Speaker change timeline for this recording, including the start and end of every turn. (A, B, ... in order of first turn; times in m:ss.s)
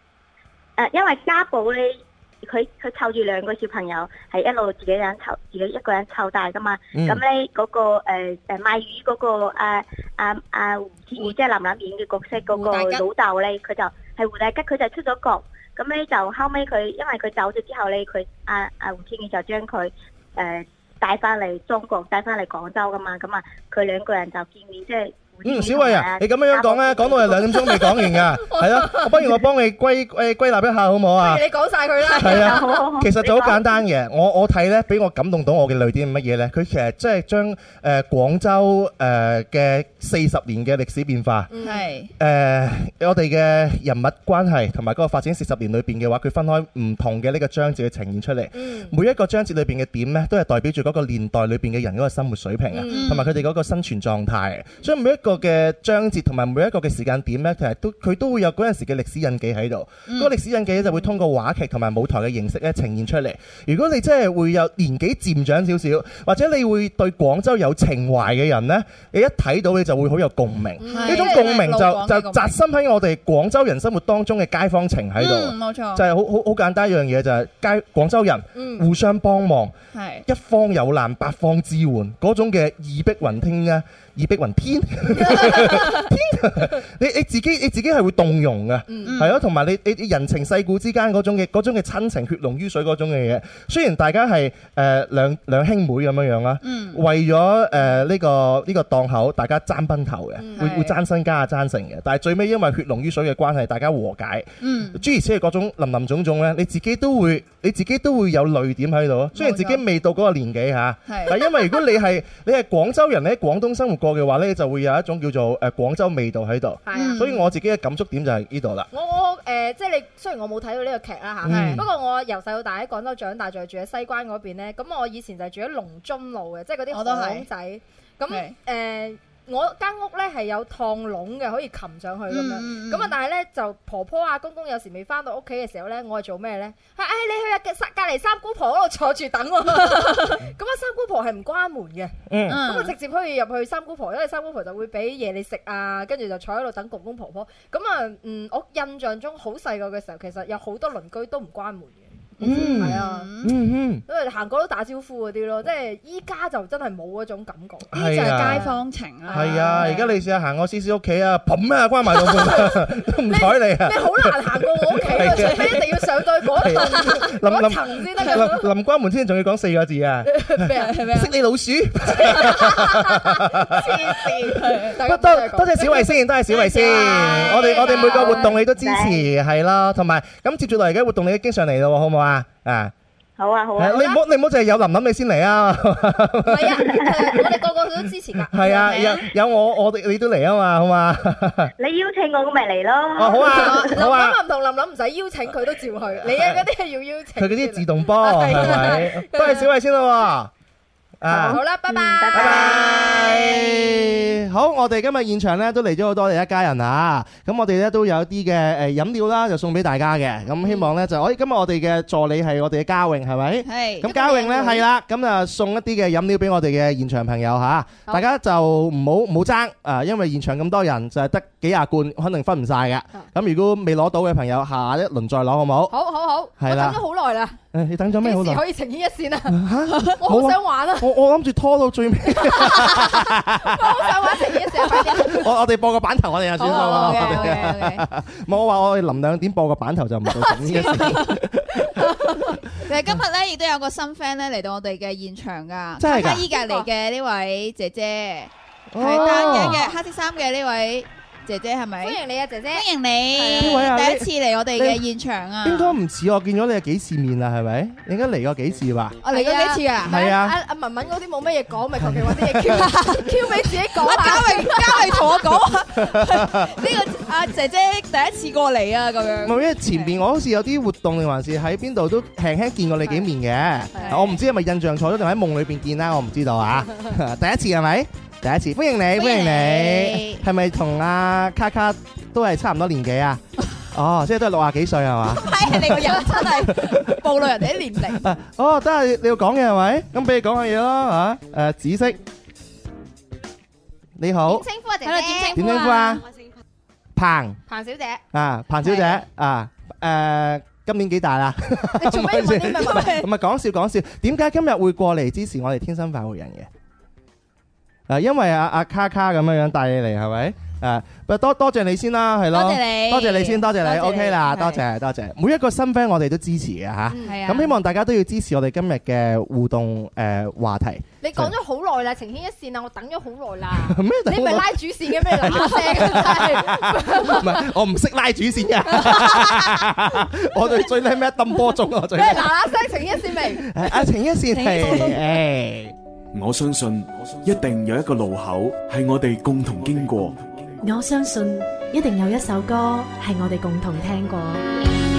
0:00.8-0:27.8 A
0:06.9-0:07.2 B
0:12.5-0:13.0 C
0:25.4-0:31.4 B
0:27.6-0:29.4 D
0:31.2-0:32.8 D
0:32.2-0:41.5 B
0:32.2-0:33.6 A
0:41.5-0:41.9 D
0:41.6-0:42.1 C
0:42.2-1:19.7 B
0:48.5-0:48.9 D
0:52.7-0:53.2 D
0:52.9-0:53.4 C
1:00.1-1:00.3 C
1:10.8-1:11.6 D
1:10.9-1:12.6 C
1:15.2-1:16.1 C
1:18.6-1:18.9 D
1:19.9-1:20.2 C
1:20.3-1:58.9 B
1:25.2-1:26.0 D
1:28.9-1:29.2 D
1:29.1-1:29.4 C
1:36.6-1:37.0 C
1:40.4-1:40.7 D
1:40.6-1:41.0 C
1:44.6-1:45.0 C
1:49.3-1:49.8 C
1:51.1-1:51.4 C
1:56.9-1:57.2 D
1:56.9-1:57.4 C
1:58.9-2:33.3 D
2:01.4-2:01.9 B
2:01.5-2:01.8 C
2:06.9-2:07.5 C
2:08.3-2:08.6 C
2:12.3-2:13.1 C
2:19.8-2:20.3 C
2:22.3-2:22.6 B
2:22.5-2:22.9 C
2:32.4-2:33.5 C
2:32.4-2:34.0 B
2:34.1-2:40.1 D
2:37.9-2:38.7 B
2:37.9-2:40.1 C
2:39.3-2:54.1 B
2:42.3-2:42.8 D
2:43.3-2:48.7 D
2:50.3-2:51.0 D
2:50.8-2:51.3 C
2:52.2-2:56.1 D
2:53.8-2:55.0 C
2:54.7-3:02.9 B
2:56.5-2:58.4 C
2:56.8-2:58.6 D
2:58.8-2:59.2 A
3:03.4-3:04.1 A
3:03.8-3:07.0 B
3:03.9-3:04.2 D
3:06.4-3:09.0 D
3:08.5-3:11.7 B
3:08.7-3:09.2 C
3:11.8-3:13.9 A
3:13.2-3:14.4 B
3:13.5-3:19.7 D
3:16.2-3:16.6 B
3:17.4-3:20.5 B
3:21.2-3:21.6 B
3:21.3-3:22.8 A
3:21.3-3:23.1 D
3:22.3-3:45.9 B
3:22.7-3:24.0 C
3:33.7-3:34.1 C
3:34.0-3:34.8 D
3:45.9-3:47.6 D
3:46.6-3:47.0 B
3:47.7-3:48.6 B
3:48.2-3:49.6 D
3:49.5-4:02.2 B
3:50.2-3:51.1 D
3:52.4-3:55.5 D
3:56.6-3:57.7 D
3:56.6-3:58.0 C
4:00.7-4:01.0 D
4:00.8-4:01.4 C
4:02.0-4:02.6 D
4:02.8-4:12.2 C
4:06.0-4:06.5 B
4:06.5-4:06.9 D
4:08.9-4:09.8 B
4:09.1-4:10.0 D
4:12.0-4:13.9 D
4:12.7-4:16.0 C
4:13.5-4:15.0 B
4:15.6-4:19.2 B
4:19.2-4:20.2 C
4:19.3-4:25.4 D
4:20.0-4:20.6 B
4:22.0-4:22.9 B
4:22.8-4:30.1 C
4:26.2-4:26.7 B
4:29.4-4:47.5 B
4:33.9-4:34.2 D
4:34.0-4:34.4 C
4:39.2-4:40.4 C
4:45.4-4:48.3 C
4:48.1-4:52.2 B
4:54.2-4:54.7 B
4:54.5-4:55.6 D
4:55.0-4:56.2 C
4:55.6-4:56.2 B
4:57.2-4:57.6 B
4:57.7-4:58.2 D
4:58.3-5:06.7 B
4:58.8-4:59.2 C
5:01.8-5:03.2 D
5:02.8-5:03.3 C
5:08.1-5:21.5 B
5:12.5-5:14.8 C
5:17.1-5:17.4 D
5:17.2-5:17.8 C
5:21.2-5:27.7 D
5:23.8-5:32.6 B
5:28.9-5:29.4 D
5:32.1-5:33.7 D
5:33.4-5:35.9 B
5:34.5-5:35.3 C
5:36.3-5:40.7 E
5:40.8-5:44.6 F